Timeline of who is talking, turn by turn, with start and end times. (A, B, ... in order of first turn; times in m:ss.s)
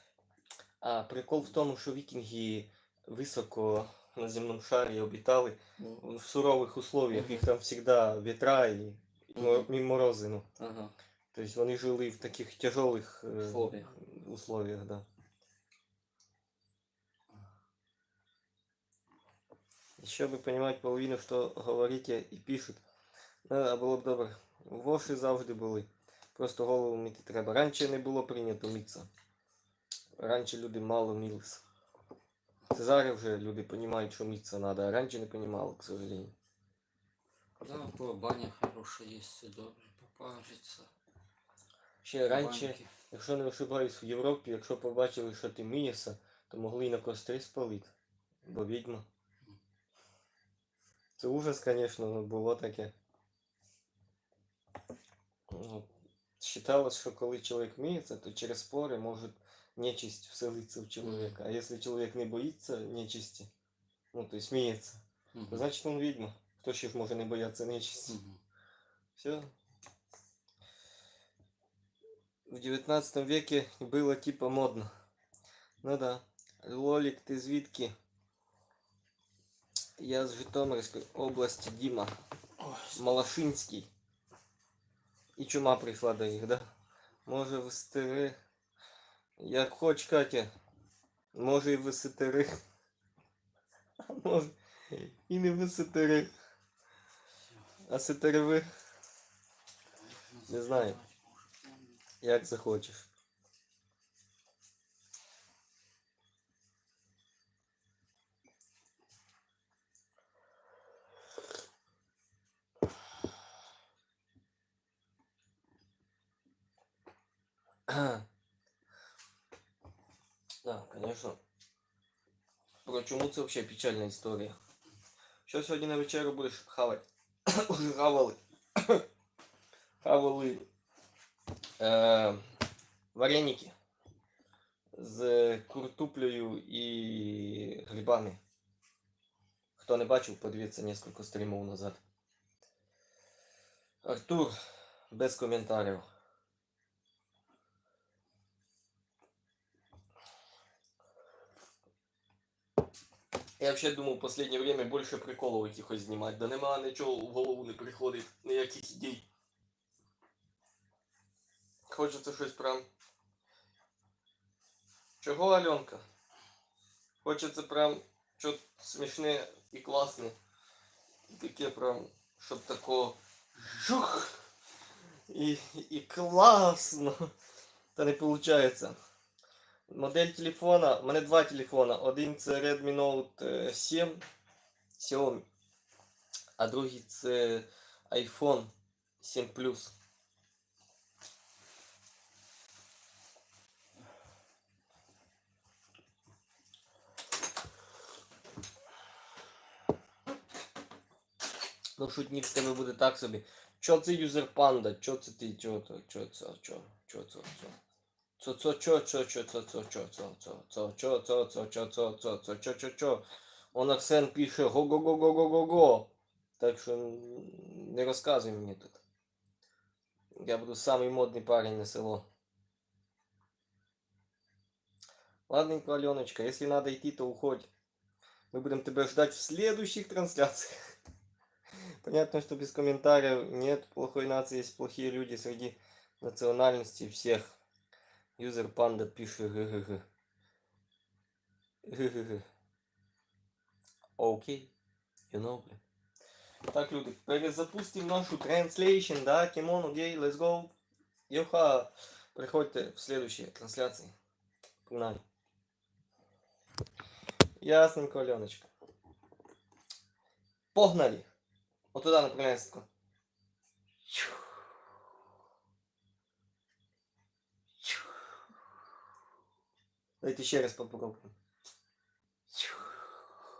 0:00.8-0:10.4 A
0:07.1-0:07.5 B
0:09.4-0:09.7 B
0:10.6-0:10.9 B
0:11.3-0:15.0 A
0:13.4-0:13.9 B
0:20.0-0:22.8 A
0:23.4-0:29.1 A
0:30.2-0:31.6 A
0:32.7-0:36.3 A
0:37.6-0:40.9 B
0:42.0-0:47.9 A
0:42.2-0:42.9 B
0:48.4-0:49.0 A
0:51.2-0:52.9 A
0:55.5-0:55.9 A
0:56.4-1:03.5 A
1:01.0-1:01.4 B
1:04.1-1:08.2 A
1:05.3-1:05.6 B
1:08.1-1:08.4 B
1:09.2-1:09.5 A
1:12.5-1:14.9 A
1:15.8-1:17.9 A
1:20.0-1:22.1 A
1:22.6-1:23.3 B
1:22.9-1:23.9 A
1:25.4-1:26.7 A
1:27.2-1:28.4 A
1:29.4-1:30.5 A
1:31.3-1:32.6 A
1:34.0-1:36.3 A
1:37.9-1:38.7 A
1:40.0-1:42.0 B
1:40.5-1:41.0 A
1:42.2-1:43.1 A
1:57.9-1:58.2 A
2:00.6-2:01.4 A
2:02.8-2:04.6 A
2:05.4-2:09.0 A
2:10.0-2:10.6 A
2:11.8-2:12.4 A
2:13.1-2:13.7 A
2:14.9-2:18.4 A
2:19.8-2:22.0 A
2:24.0-2:24.5 A
2:25.1-2:26.0 A
2:33.6-2:39.2 A
2:41.9-2:42.8 A
2:45.2-2:46.0 A
2:47.2-2:50.4 A
2:51.3-2:54.4 A
2:55.3-2:57.3 A
2:57.9-2:59.0 A
2:59.9-3:04.2 A
3:05.0-3:05.4 A
3:06.6-3:09.9 A
3:22.0-3:27.8 A
3:28.4-3:39.0 A
3:40.3-3:42.2 A
3:45.5-3:47.7 A
3:48.5-3:50.7 A
3:52.0-3:57.5 A
3:58.4-4:00.0 A
4:01.8-4:02.4 A
4:04.2-4:04.7 A
4:05.3-4:05.8 A
4:06.7-4:10.7 A
4:11.3-4:14.1 A
4:14.8-4:15.2 A
4:17.6-4:18.7 A
4:20.7-4:21.3 A
4:21.9-4:22.8 A
4:30.2-4:31.3 A